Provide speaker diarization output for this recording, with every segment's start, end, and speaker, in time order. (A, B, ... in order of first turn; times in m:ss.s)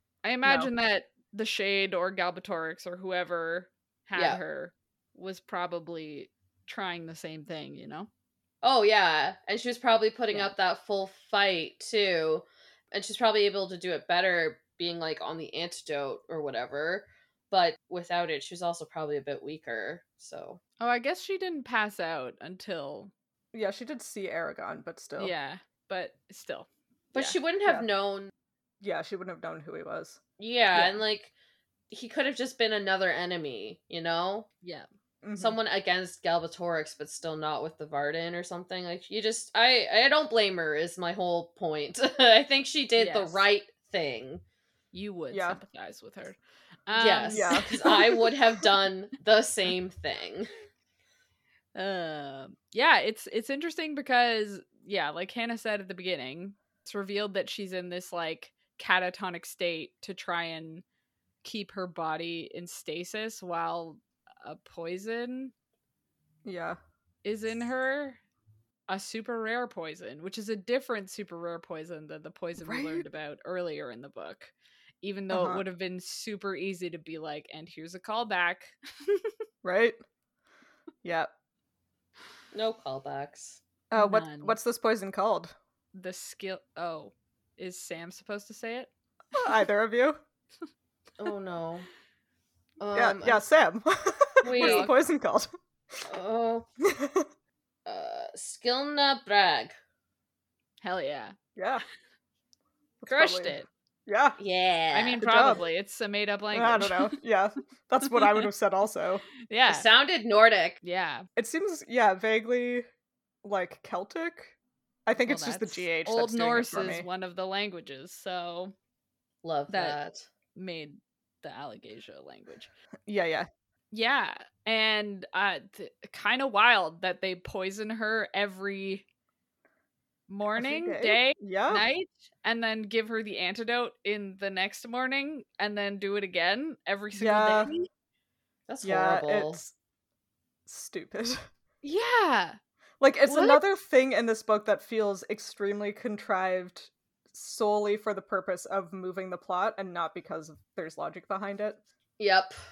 0:00.2-0:08.1 A
0:00.4-0:00.7 B
0:08.6-0:20.6 C
0:20.8-0:23.1 A
0:23.5-0:25.3 B
0:25.2-0:27.4 A
0:27.1-0:28.3 C
0:28.8-0:30.2 B
0:30.4-0:31.3 C
0:31.9-0:34.5 C
0:34.6-0:34.9 A
0:35.2-0:35.6 B
0:35.3-0:44.4 C
0:43.0-0:43.4 A
0:44.9-0:48.0 A
0:45.3-0:45.6 B
0:47.0-0:50.5 C
0:47.3-0:48.3 B
0:51.7-1:00.8 A
1:01.4-1:05.5 A
1:06.4-1:06.8 B
1:07.2-1:08.2 A
1:08.9-1:19.3 A
1:12.6-1:13.0 B
1:15.3-1:15.6 B
1:19.6-1:20.0 B
1:21.0-1:21.3 B
1:22.5-1:23.6 C
1:23.9-1:25.5 B
1:23.9-1:24.6 A
1:25.9-1:28.9 A
1:29.4-1:30.2 B
1:31.2-1:31.9 C
1:32.8-1:33.4 C
1:32.9-1:35.5 B
1:34.4-1:34.9 C
1:34.5-1:34.9 A
1:36.0-1:36.6 C
1:36.8-1:37.3 B
1:37.8-1:39.8 C
1:40.8-1:41.4 A
1:41.6-1:41.8 B
1:43.0-1:44.4 B
1:43.1-1:43.7 A
1:44.4-1:45.3 C
1:44.9-1:47.2 A
1:45.2-1:45.6 B
1:46.5-1:49.2 B
1:48.1-1:48.4 A
1:49.5-1:49.8 A
1:49.7-1:50.8 C
1:50.8-1:51.3 A
1:51.4-1:52.8 B
1:53.4-1:57.0 B
1:55.2-1:58.7 A
1:59.4-2:00.3 C
1:59.7-2:00.0 A
2:00.5-2:02.7 A
2:03.1-2:03.5 B
2:03.9-2:09.0 A
2:10.3-2:17.9 A
2:10.5-2:11.8 B
2:17.1-2:17.7 B
2:18.7-2:19.6 C
2:18.8-2:19.7 B
2:20.7-2:21.4 B
2:21.8-2:22.6 A
2:23.0-2:31.8 B
2:23.2-2:23.6 A
2:32.2-2:32.6 C